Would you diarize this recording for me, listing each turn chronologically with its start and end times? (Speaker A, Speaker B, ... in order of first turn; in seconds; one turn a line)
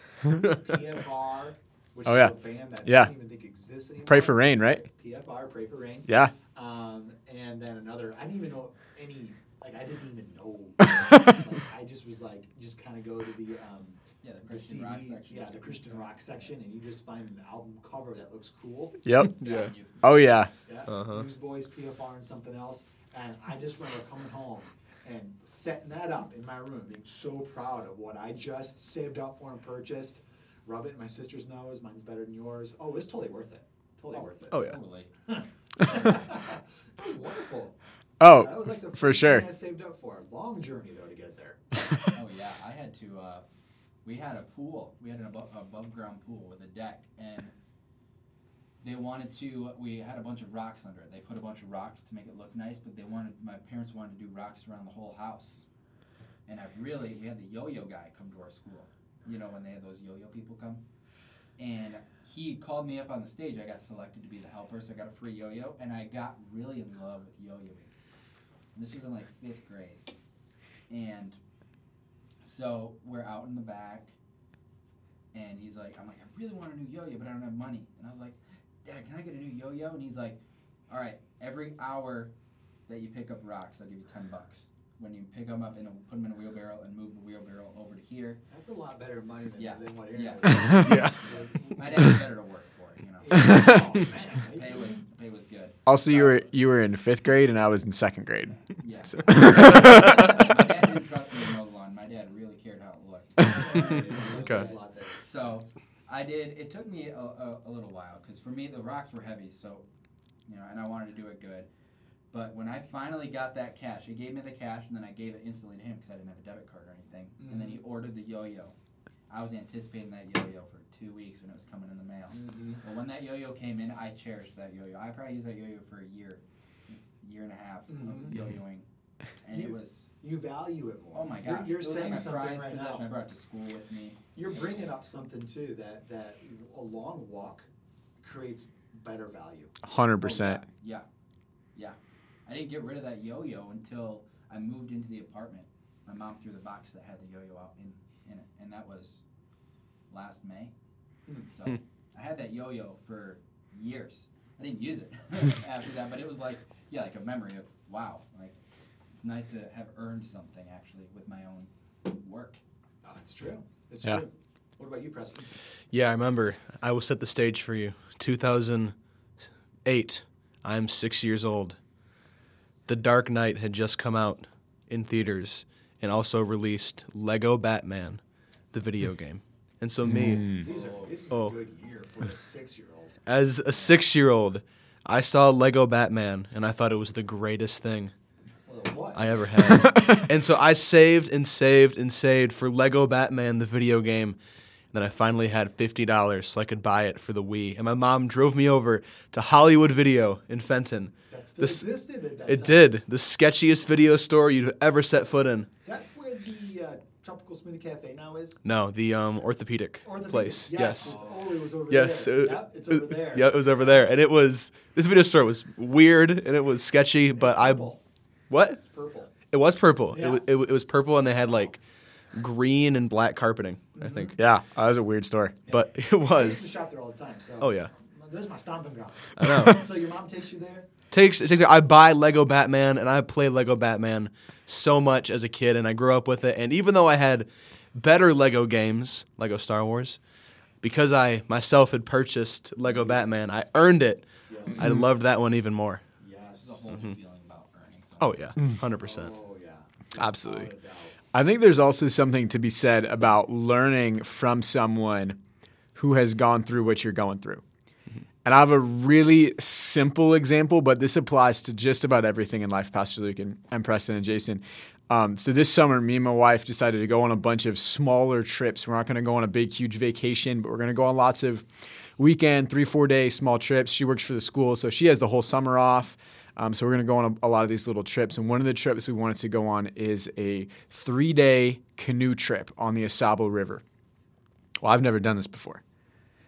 Speaker A: 0.4-19.1
Speaker B: 2.0-3.1
Speaker B: 4.0-4.8
Speaker B: 6.1-6.3
Speaker B: 10.9-11.4
Speaker C: 14.2-16.4
Speaker B: 19.0-19.4
Speaker D: 19.4-19.7
Speaker C: 19.4-20.2
Speaker B: 20.0-20.5
Speaker A: 20.6-34.6
Speaker D: 20.9-21.2
Speaker C: 34.1-35.1
Speaker D: 34.5-34.8
Speaker A: 35.3-37.7
Speaker B: 38.2-39.4
Speaker A: 38.3-41.6
Speaker C: 42.1-43.4
Speaker C: 44.0-47.5
Speaker C: 48.8-55.6
Speaker C: 56.5-60.8
Speaker C: 61.6-67.9
Speaker C: 68.7-70.1
Speaker C: 70.9-71.4
Speaker C: 72.4-74.1
Speaker C: 75.3-82.3
Speaker C: 82.9-88.4
Speaker A: 88.5-92.1
Speaker C: 89.6-93.9
Speaker D: 90.8-91.2
Speaker A: 93.2-95.0
Speaker B: 93.3-93.8
Speaker C: 94.5-95.8
Speaker B: 95.8-98.6
Speaker A: 96.0-96.5
Speaker C: 98.7-109.8
Speaker B: 99.2-100.3
Speaker A: 103.5-105.5
Speaker D: 104.3-104.7
Speaker C: 110.5-111.7
Speaker C: 112.3-118.7
Speaker A: 117.4-117.8
Speaker C: 119.3-128.8
Speaker A: 122.3-122.8
Speaker A: 127.9-128.3
Speaker C: 129.4-130.1
Speaker A: 129.5-133.1
Speaker C: 131.1-134.2
Speaker A: 134.3-137.7
Speaker A: 138.2-139.7
Speaker B: 139.8-140.6
Speaker C: 140.2-141.1
Speaker C: 141.7-149.2
Speaker C: 150.1-150.7
Speaker C: 151.5-158.6
Speaker C: 159.1-162.6
Speaker A: 163.0-165.5
Speaker D: 165.9-168.9
Speaker D: 169.8-171.8
Speaker D: 172.9-178.2
Speaker D: 178.7-180.6
Speaker B: 180.1-180.6
Speaker A: 180.4-183.2
Speaker C: 180.5-181.2
Speaker D: 183.3-188.1
Speaker A: 188.7-189.8
Speaker D: 189.1-194.4
Speaker B: 189.7-190.2
Speaker D: 194.9-201.9
Speaker A: 201.3-202.9
Speaker D: 202.4-205.7
Speaker A: 205.8-208.6
Speaker D: 208.6-211.2
Speaker A: 210.0-214.1
Speaker C: 211.0-211.3
Speaker D: 211.9-217.9
Speaker A: 217.3-218.0
Speaker D: 218.5-218.8
Speaker A: 218.8-219.3
Speaker D: 219.5-221.8
Speaker A: 220.1-220.4
Speaker D: 222.3-224.3
Speaker A: 223.9-224.4
Speaker B: 224.4-225.6
Speaker A: 225.7-230.9
Speaker D: 225.7-226.7
Speaker D: 227.6-227.9
Speaker D: 229.4-229.8
Speaker D: 231.1-240.2
Speaker D: 240.8-246.0
Speaker A: 242.8-243.4
Speaker A: 244.5-244.9
Speaker A: 246.2-246.8
Speaker C: 246.6-248.5
Speaker D: 248.2-249.3
Speaker A: 249.0-251.2
Speaker B: 250.2-250.7
Speaker B: 251.3-255.4
Speaker B: 255.9-257.6
Speaker B: 258.4-271.7
Speaker B: 272.2-283.8
Speaker B: 284.8-285.8